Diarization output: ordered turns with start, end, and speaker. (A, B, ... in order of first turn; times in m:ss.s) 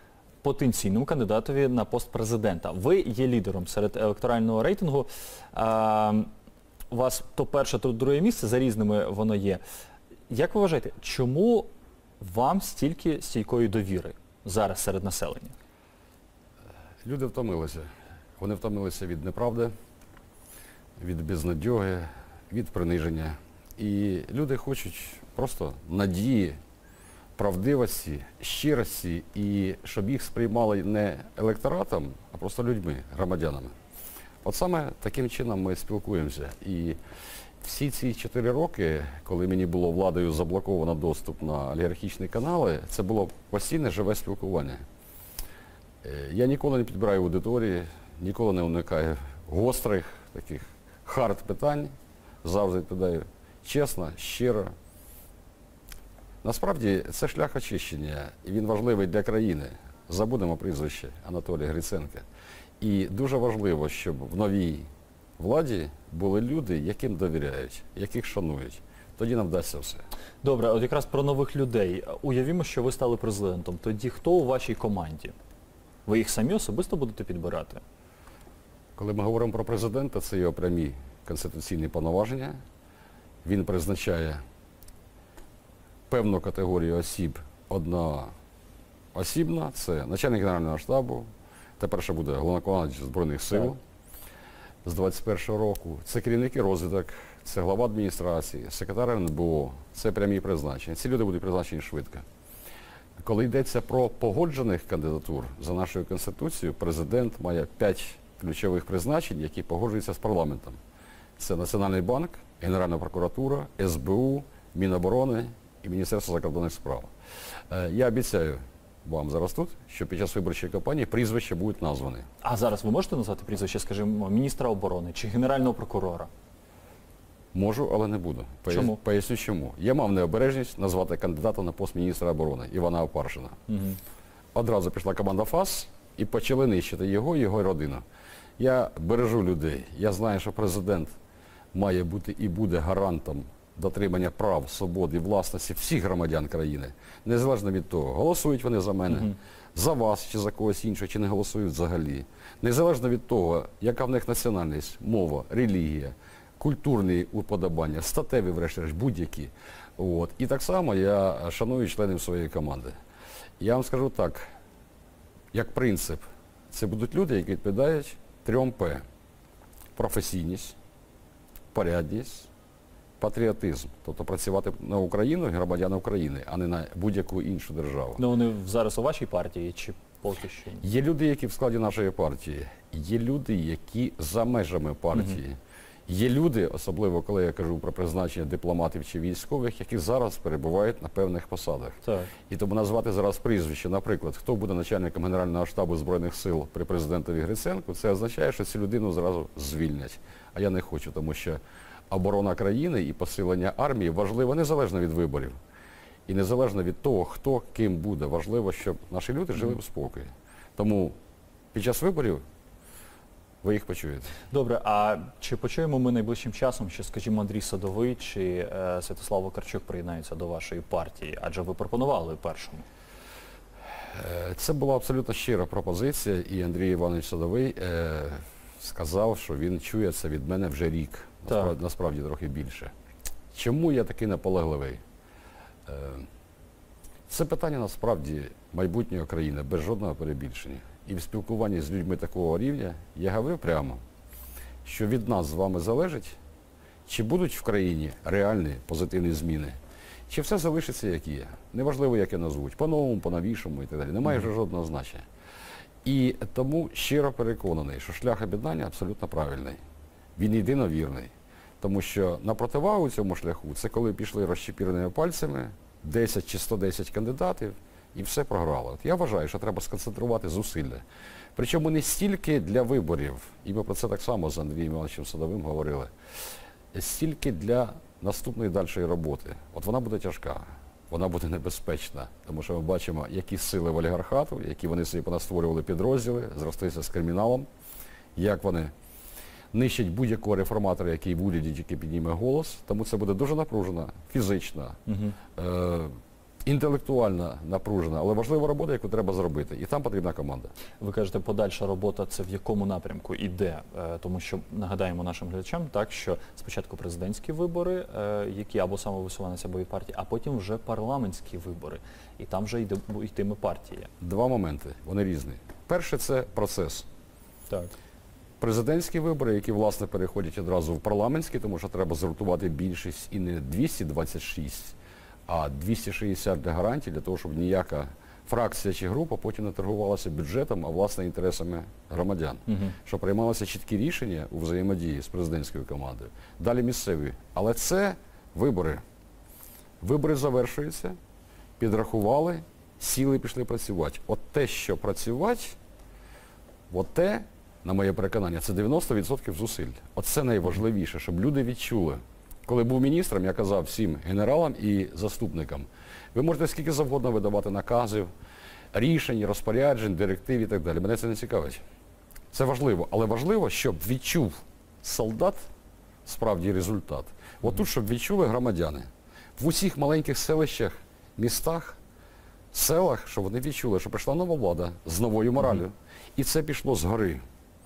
0:00.4-0:06.3 A
0:06.9-0:09.6 A
0:10.3-0:11.7 A
0:12.2-0:15.5 A
0:17.0-0:17.9 B
0:18.4-0:19.7 B
0:21.0-0:26.6 B
0:27.4-0:33.8 B
0:34.4-0:37.0 B
0:37.6-0:44.8 B
0:46.0-0:51.9 B
0:52.4-0:54.7 B
0:56.4-1:02.2 B
1:02.8-1:10.0 B
1:10.4-1:15.3 A
1:16.0-1:17.8 A
1:19.0-1:22.6 B
1:23.4-1:24.4 B
1:26.1-1:28.3 B
1:29.1-1:33.8 B
1:34.8-1:42.2 B
1:43.2-1:50.8 B
1:51.4-1:57.1 B
1:57.7-2:02.3 B
2:02.4-2:06.3 A
2:07.5-2:13.6 B
2:08.7-2:09.0 A
2:13.7-2:14.0 A
2:14.5-2:18.0 B
2:18.6-2:21.1 B
2:21.7-2:42.9 B
2:43.6-2:44.4 B
2:45.5-2:49.0 B
2:50.0-2:50.8 B
2:51.7-2:52.5 B
2:53.2-2:58.2 B
2:58.2-3:00.8 A
3:00.8-3:25.6 B
3:12.0-3:12.3 A
3:26.3-3:31.2 B
3:31.7-3:32.4 B
3:33.6-3:34.3 B
3:34.5-3:42.8 A
3:44.1-3:52.9 B
3:53.5-3:55.0 B
3:55.8-3:56.3 B
3:57.3-4:04.0 B
4:04.8-4:06.4 B
4:07.0-4:09.8 B
4:10.3-4:15.2 B
4:16.0-4:19.8 B
4:20.4-4:31.0 B
4:31.6-4:36.1 B
4:36.9-4:47.7 B
4:48.4-4:48.9 B
4:49.7-4:55.0 B
4:55.1-4:55.4 A
4:55.5-5:00.7 B
5:01.0-5:14.1 A
5:14.2-5:17.1 B
5:18.6-5:24.9 B
5:25.5-5:39.0 B
5:32.7-5:33.0 A
5:40.0-5:41.2 B
5:41.8-5:45.8 B
5:46.9-5:58.3 B
5:58.9-6:01.8 B
6:02.5-6:05.6 B
6:06.2-6:12.0 B
6:12.7-6:17.4 B